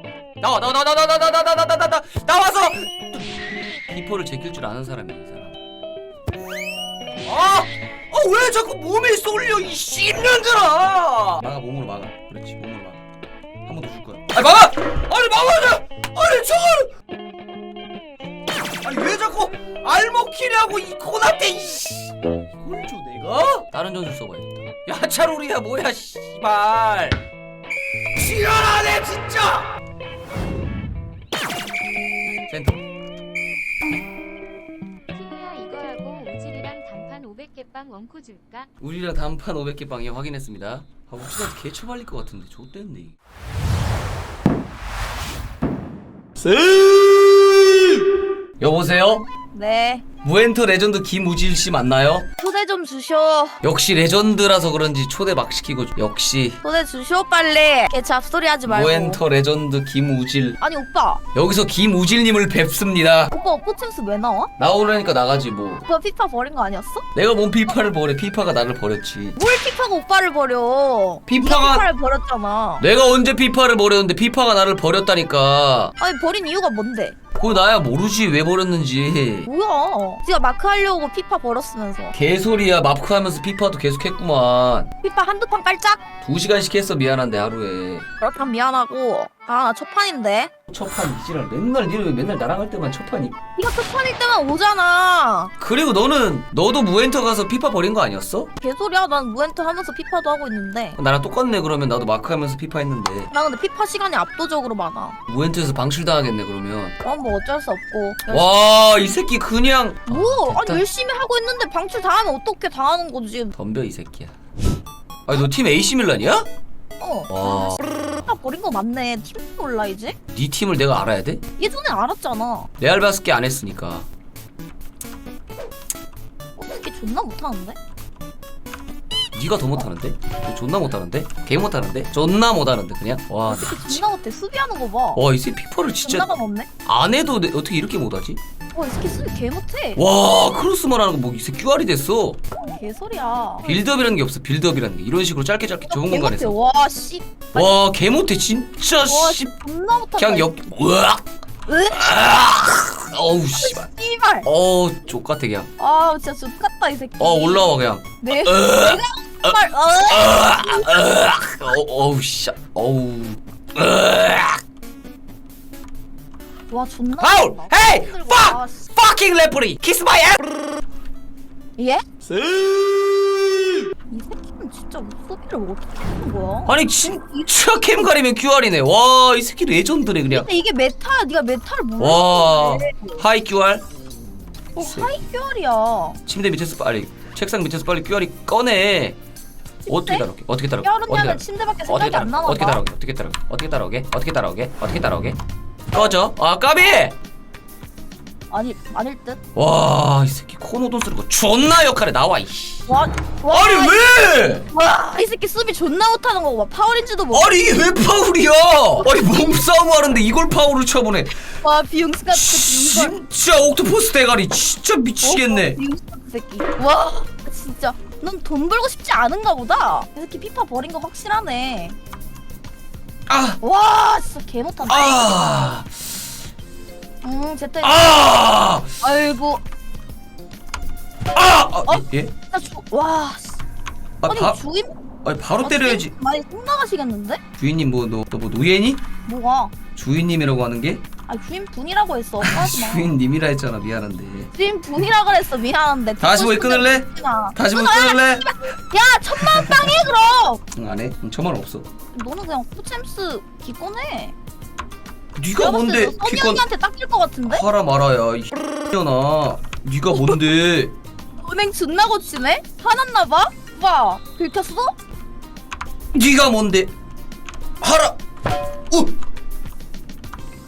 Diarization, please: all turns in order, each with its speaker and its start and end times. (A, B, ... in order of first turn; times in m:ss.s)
0:00.4-0:03.2 A
0:03.9-0:05.6 A
0:07.2-0:13.0 A
0:13.6-0:16.9 A
0:18.8-0:27.2 A
0:28.2-0:29.7 A
0:32.5-0:32.8 A
0:35.1-0:38.7 B
0:38.8-0:43.2 A
0:46.4-0:48.0 A
0:48.6-0:49.2 A
0:49.4-0:50.0 C
0:50.2-0:52.3 A
0:52.4-0:53.6 C
0:53.6-0:56.6 A
0:56.6-0:59.2 C
0:58.6-1:00.6 A
1:00.6-1:01.2 C
1:01.3-1:03.3 A
1:03.3-1:04.5 C
1:04.6-1:05.8 A
1:05.8-1:07.0 C
1:07.2-1:09.4 A
1:09.4-1:12.8 C
1:11.3-1:11.9 A
1:12.8-1:16.0 A
1:16.0-1:17.2 C
1:17.4-1:19.5 A
1:19.5-1:22.2 C
1:22.1-1:24.9 A
1:25.0-1:26.0 C
1:26.2-1:28.1 A
1:28.2-1:30.5 C
1:30.7-1:33.4 A
1:33.6-1:35.5 C
1:35.6-1:38.5 A
1:38.6-1:41.0 C
1:41.0-1:43.3 A
1:43.3-1:45.2 C
1:45.3-1:47.0 A
1:47.0-1:48.5 C
1:48.3-1:50.8 A
1:50.1-1:53.5 C
1:53.6-1:54.4 A
1:55.2-1:56.5 A
1:57.0-2:00.2 C
1:57.3-1:57.8 A
2:00.3-2:01.4 A
2:01.6-2:02.7 C
2:02.8-2:04.1 A
2:06.6-2:07.8 C
2:09.3-2:14.0 A
2:13.5-2:15.2 C
2:15.2-2:18.4 A
2:16.0-2:16.7 C
2:18.7-2:20.0 C
2:20.0-2:22.4 A
2:22.6-2:23.8 C
2:23.7-2:26.6 A
2:25.9-2:27.8 C
2:27.6-2:29.5 A
2:29.1-2:30.5 C
2:30.2-2:31.2 A
2:31.7-2:32.2 C
2:31.9-2:33.9 A
2:33.6-2:34.5 C
2:34.4-2:35.7 A
2:35.8-2:40.9 C
2:37.2-2:44.6 A
2:46.7-2:48.9 C
2:47.2-2:50.4 A
2:51.8-2:52.0 C
2:52.2-2:53.8 A
2:54.1-2:57.4 C
2:56.7-3:00.5 A
3:00.3-3:03.2 C
3:02.0-3:03.8 A
3:04.8-3:06.2 C
3:04.8-3:05.1 A
3:06.3-3:09.2 A
3:09.8-3:10.3 C
3:09.9-3:15.4 A
3:10.8-3:12.8 C
3:15.9-3:17.2 A
3:18.5-3:19.4 C
3:19.6-3:22.9 A
3:22.9-3:27.6 C
3:23.5-3:24.7 A
3:27.3-3:31.5 A
3:31.6-3:33.2 C
3:32.3-3:35.8 A
3:35.2-3:42.0 C
3:43.3-3:43.6 A
3:43.6-3:45.5 C
3:44.8-3:45.9 A
3:47.2-3:48.0 C
3:47.8-3:49.0 A
3:49.0-3:49.6 C
3:51.3-3:52.3 A
3:51.9-3:53.6 C
3:54.2-3:54.6 A
3:54.3-3:54.9 C
3:55.2-3:56.1 A
3:55.6-3:57.4 C
3:57.6-3:59.1 A
3:59.3-3:59.7 C
4:00.0-4:01.0 A
4:01.3-4:03.1 C
4:02.4-4:04.5 A
4:04.6-4:10.6 C
4:06.2-4:08.8 A
4:09.4-4:10.0 A
4:10.8-4:11.9 A
4:12.1-4:14.4 C
4:15.4-4:16.7 A
4:15.6-4:17.6 C
4:17.5-4:20.9 A
4:20.1-4:20.4 C
4:21.4-4:25.0 C
4:26.1-4:26.9 A
4:27.8-4:28.2 A
4:28.9-4:29.2 A